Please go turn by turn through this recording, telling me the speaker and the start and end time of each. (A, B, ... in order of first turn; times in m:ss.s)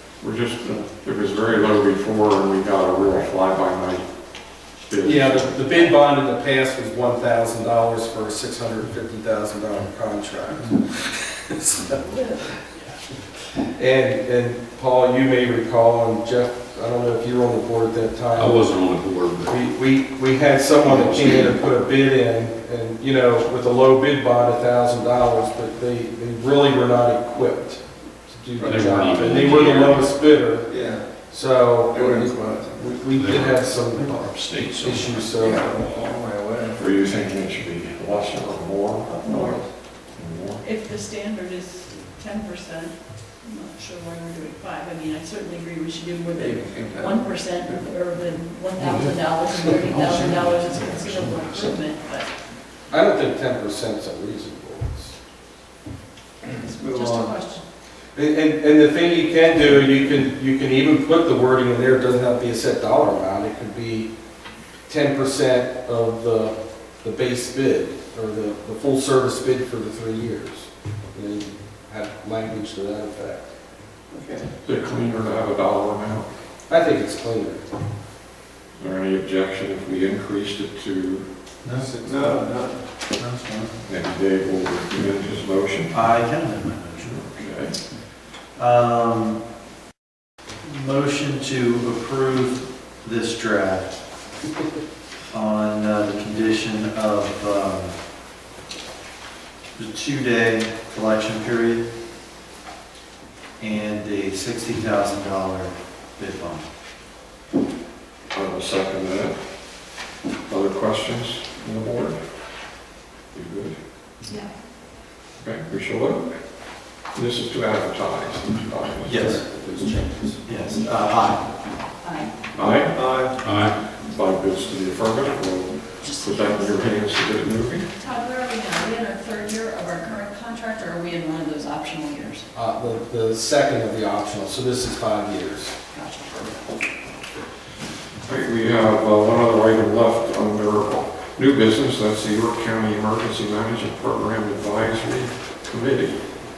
0:00.2-0:04.1 A
0:04.8-0:05.7 A
0:05.0-0:12.0 B
0:12.0-0:12.4 C
0:13.8-0:18.7 B
0:18.3-0:19.6 D
0:19.5-0:35.7 B
0:20.9-0:21.5 D
0:28.6-0:30.1 D
0:30.5-0:31.0 E
0:31.9-0:33.1 E
0:33.1-0:35.4 D
0:35.4-0:36.8 E
0:36.8-0:39.4 A
0:39.0-0:39.6 C
0:39.2-0:39.7 E
0:40.0-0:40.6 A
0:40.6-0:52.3 C
0:46.3-0:47.9 E
0:48.8-0:49.1 A
0:52.9-0:55.1 B
0:56.4-0:57.6 C
0:56.6-0:57.4 E
0:58.1-1:04.1 B
1:04.9-1:13.5 B
1:14.1-1:14.5 E
1:14.6-1:16.3 A
1:16.7-1:17.7 B
1:18.8-1:21.3 A
1:21.6-1:21.9 F
1:21.7-1:22.4 B
1:22.0-1:22.8 E
1:23.2-1:23.7 F
1:23.8-1:25.9 A
1:25.9-1:27.2 F
1:27.0-1:27.8 A
1:28.6-1:29.4 F
1:30.6-1:34.0 F
1:35.3-1:38.0 F
1:39.8-1:41.9 F
1:43.6-1:46.6 F
1:48.3-1:49.3 A
1:50.5-1:52.2 A
1:53.3-1:53.8 A
1:54.3-1:54.5 C
1:55.4-1:56.2 A
1:57.1-1:59.4 A
1:59.1-1:59.4 F
1:59.1-2:00.4 B
2:00.4-2:01.4 F
2:02.0-2:02.3 C
2:02.6-2:03.0 A
2:02.9-2:03.4 E
2:03.4-2:03.8 D
2:03.9-2:07.9 A
2:06.1-2:06.7 C
2:08.0-2:12.4 C
2:12.5-2:15.8 B
2:15.9-2:16.6 C
2:18.3-2:26.2 A